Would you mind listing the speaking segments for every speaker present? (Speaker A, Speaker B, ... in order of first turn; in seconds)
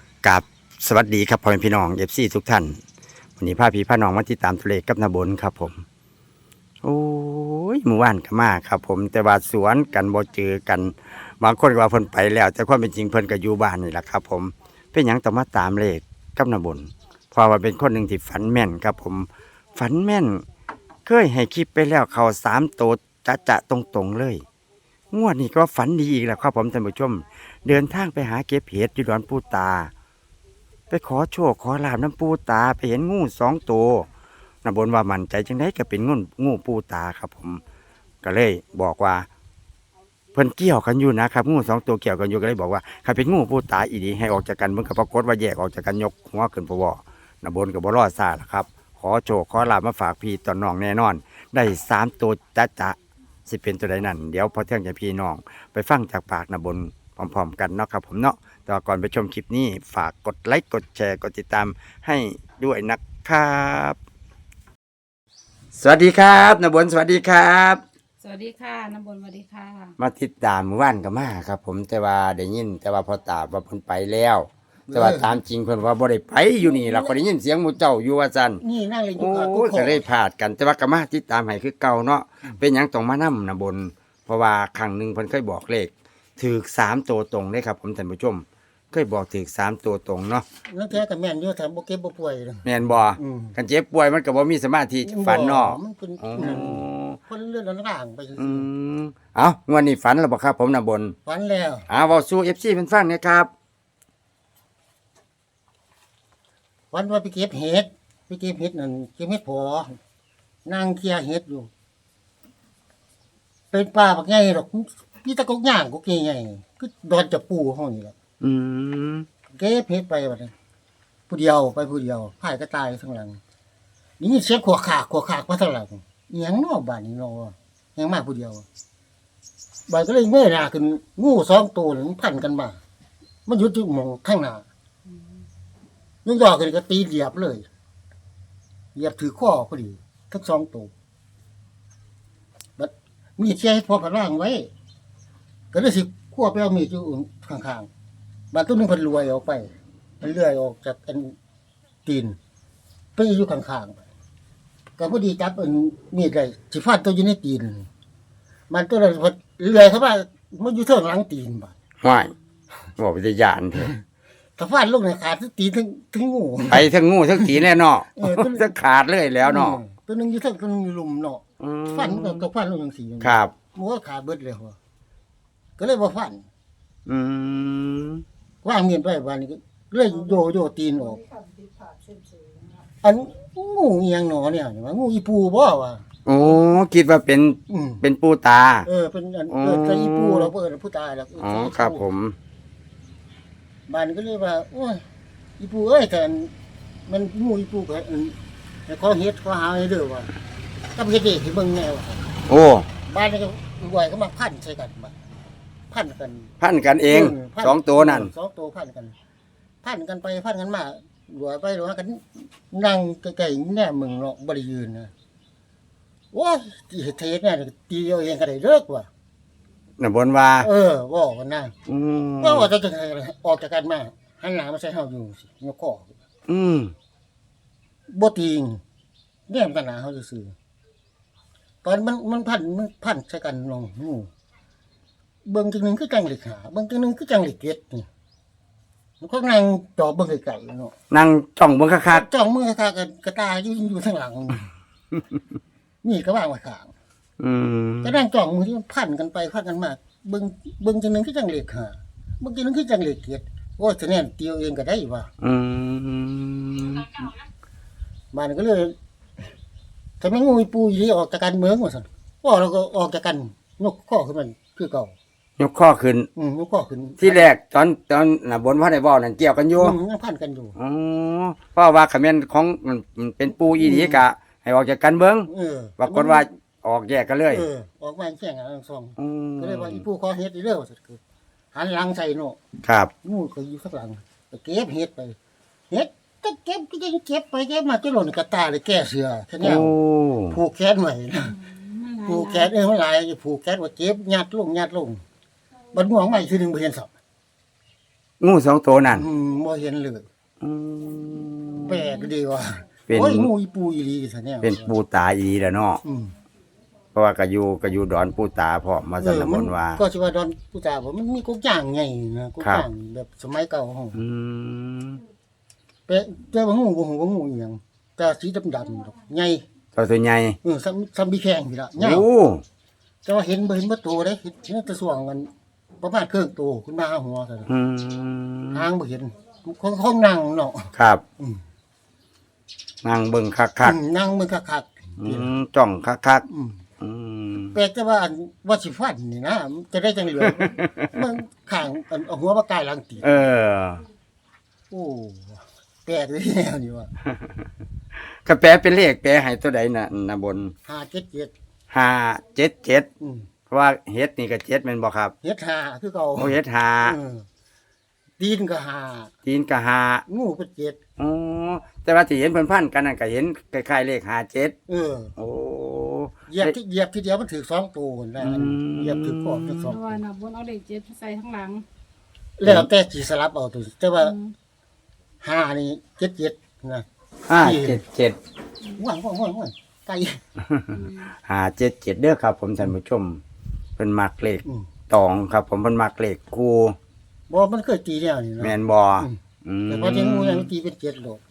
Speaker A: 0.2-2.8, 3.4-5.8, 6.8-20.4, 21.0-24.4, 25.1-29.9, 30.9-34.1, 34.6-37.6, 38.2-39.3, 40.3-64.0, 65.8-67.8, 70.0-78.6, 79.2-90.4, 92.6-97.2, 98.4-101.1, 101.9-103.5, 118.4-119.2, 162.0-162.3, 163.0-163.9, 166.7-169.8, 171.6-172.5, 173.2-173.5, 177.1-178.2, 186.2-188.9, 189.5-190.5, 191.4-192.3, 202.5-202.9, 206.6-208.3, 220.0-220.7, 221.9-222.7, 226.5-226.9, 241.1-242.2, 247.4-248.2, 255.4-257.3, 265.6-266.3, 267.2-269.9, 270.8-277.7, 279.2-280.0, 282.8-283.1, 289.6-290.6, 298.4-299.2, 300.6-302.0, 303.1-303.5, 304.6-306.0, 307.1-310.0, 314.1-315.2, 319.9-320.6, 322.0-322.6, 327.7-328.9, 330.9-331.2, 333.0-334.0, 335.2-336.4, 337.0-337.8, 340.5-341.1, 343.2-344.0, 348.4-350.7, 351.9-353.1, 353.7-355.3, 356.4-357.1, 359.4-360.2, 361.2-364.7, 365.4-366.7, 368.4-369.9, 372.6-372.9, 377.5-378.4, 381.4-383.4, 384.0-386.9, 388.6-390.7
Speaker B: 68.2-70.0, 291.4-292.7, 302.0-302.2, 369.8-371.8, 374.2-374.5, 380.9-381.3
Speaker C: 74.9-75.4, 76.6-77.2, 78.6-80.0, 90.7-93.5, 95.0-98.7, 101.2-101.9, 106.9-110.0, 110.6-111.7, 113.7-118.1, 119.5-120.5, 121.3-123.4, 124.2-128.6, 129.9-132.8, 133.4-134.7, 136.2-137.7, 138.9-140.9, 142.8-144.7, 145.7-147.9, 148.5-151.3, 152.1-152.4, 153.2-154.0, 155.0-157.9, 158.7-161.7, 164.6-167.6, 168.1-168.7, 169.4-174.8, 175.8-176.4, 178.6-181.2, 183.0-186.0, 187.7-188.0, 188.8-192.1, 193.9-195.0, 195.6-196.5, 197.1-198.3, 198.9-200.3, 200.9-202.2, 203.1-205.1, 205.9-206.5, 207.1-209.1, 209.8-215.1, 216.3-219.1, 220.6-221.7, 222.4-226.1, 228.1-228.8, 229.5-230.5, 231.8-234.3, 235.4-238.1, 239.2-240.9, 242.1-244.7, 246.0-246.9, 248.0-255.3, 258.3-258.9, 260.2-265.1, 266.4-267.5, 269.8-270.8, 273.8-274.2, 275.5-276.5, 277.5-281.2, 281.7-282.6, 283.2-285.4, 285.9-290.0, 290.5-291.5, 292.2-295.2, 295.9-297.1, 299.1-300.2, 301.9-304.9, 306.0-306.3, 309.2-314.2, 316.1-319.6, 320.6-322.2, 323.2-325.5, 326.0-327.7, 328.7-331.6, 333.8-335.5, 336.4-336.8, 337.7-343.4, 344.9-347.1, 350.9-351.5, 353.2-353.5, 355.4-357.4, 358.4-359.3, 360.3-361.0, 364.9-365.3, 366.5-370.2, 372.6-374.4, 375.4-378.0, 378.9-380.4, 387.5-391.4